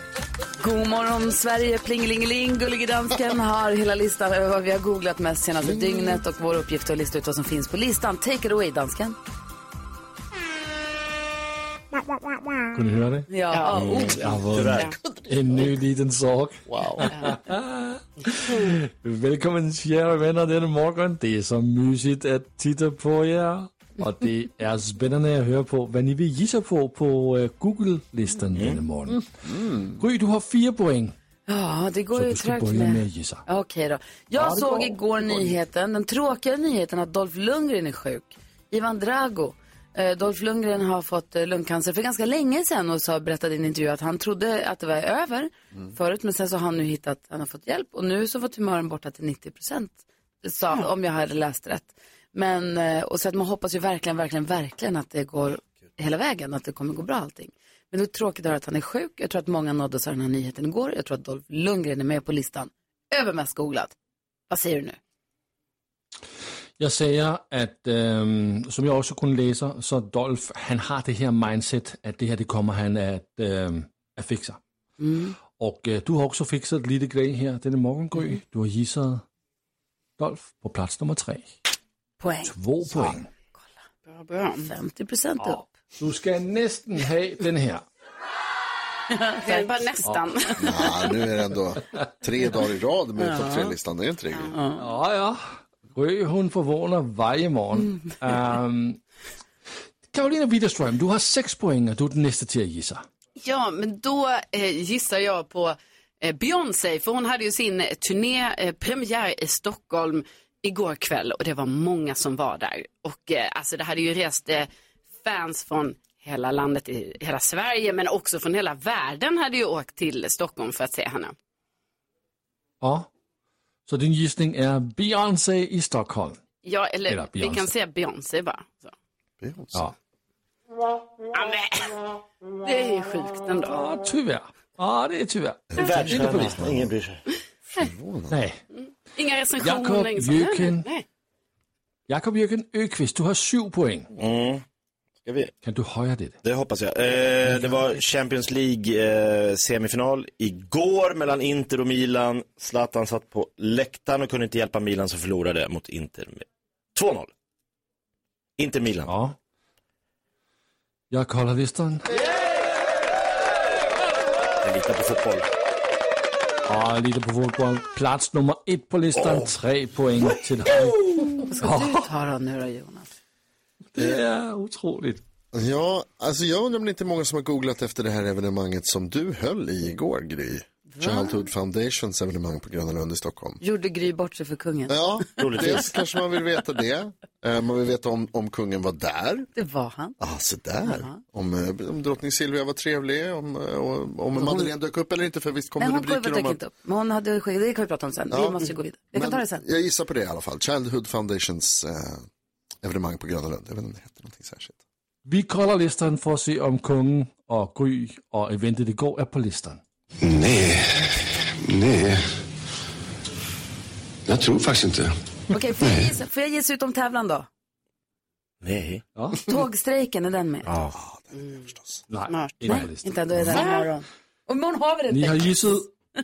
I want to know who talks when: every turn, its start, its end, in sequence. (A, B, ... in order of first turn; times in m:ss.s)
0:00.6-0:09.2 A
0:05.7-0:06.2 B
0:12.7-0:13.3 C
0:13.3-0:14.3 A
0:13.5-0:14.1 D
0:13.8-0:14.9 E
0:14.1-0:29.2 C
0:15.0-0:15.6 B
0:16.7-0:17.1 B
0:28.6-0:28.8 E
0:29.5-0:30.0 B
0:30.0-0:31.1 C
0:31.5-1:03.9 A
0:32.1-0:33.4 C
0:34.4-0:35.0 C
1:04.5-1:05.0 A
1:06.8-1:14.6 C
1:15.0-1:15.3 A
1:15.5-1:19.2 C
1:20.2-1:21.5 C
1:22.2-1:22.5 A
1:22.4-1:23.3 C
1:24.1-1:24.7 D
1:24.6-1:25.6 A
1:25.4-1:27.8 C
1:29.1-1:29.7 A
1:29.4-1:31.1 D
1:30.6-1:34.5 B
1:33.2-1:33.7 A
1:34.5-1:34.8 A
1:34.8-1:39.0 C
1:40.1-1:43.0 C
1:43.4-1:54.7 D
1:55.2-2:01.3 D
2:02.8-2:03.1 C
2:03.9-2:06.4 C
2:06.6-2:08.9 D
2:07.1-2:07.7 C
2:09.4-2:09.9 B
2:11.3-2:12.0 D
2:12.6-2:13.9 D
2:13.7-2:16.7 C
2:15.7-2:16.9 B
2:15.8-2:17.2 E
2:17.7-2:18.4 B
2:18.3-2:18.6 C
2:18.7-2:21.0 D
2:19.6-2:20.9 C
2:22.1-2:24.1 C
2:24.2-2:24.6 E
2:25.2-2:25.5 E
2:25.6-2:26.4 C
2:26.4-2:37.3 E
2:38.6-2:39.1 E
2:39.1-2:39.4 C
2:41.1-2:42.1 C
2:44.6-2:45.5 E
2:46.7-2:52.1 C
2:49.2-2:49.5 E
2:51.4-2:53.1 A
2:54.0-2:55.2 C
2:55.5-3:03.6 B
3:00.9-3:01.4 A
3:03.6-3:05.8 A
3:04.9-3:09.5 B
3:05.4-3:05.9 E
3:09.6-3:10.2 A
3:10.2-3:16.6 B
3:10.8-3:11.2 A
3:14.4-3:14.7 A
3:15.8-3:19.6 A
3:18.3-3:22.3 B
3:22.8-3:24.8 B
3:25.3-3:29.8 C
3:30.2-3:32.2 F
3:34.3-3:35.1 F
3:35.5-3:37.5 A
3:35.8-3:36.1 F
3:38.6-3:39.0 E
3:39.2-3:39.4 C
3:39.5-3:40.7 A
3:40.7-3:41.0 E
3:40.9-3:42.0 B
3:41.4-3:41.7 D
3:42.1-3:43.7 C
3:42.3-3:42.9 D
3:42.7-3:45.8 A
3:43.5-3:43.9 D
3:45.1-3:45.9 C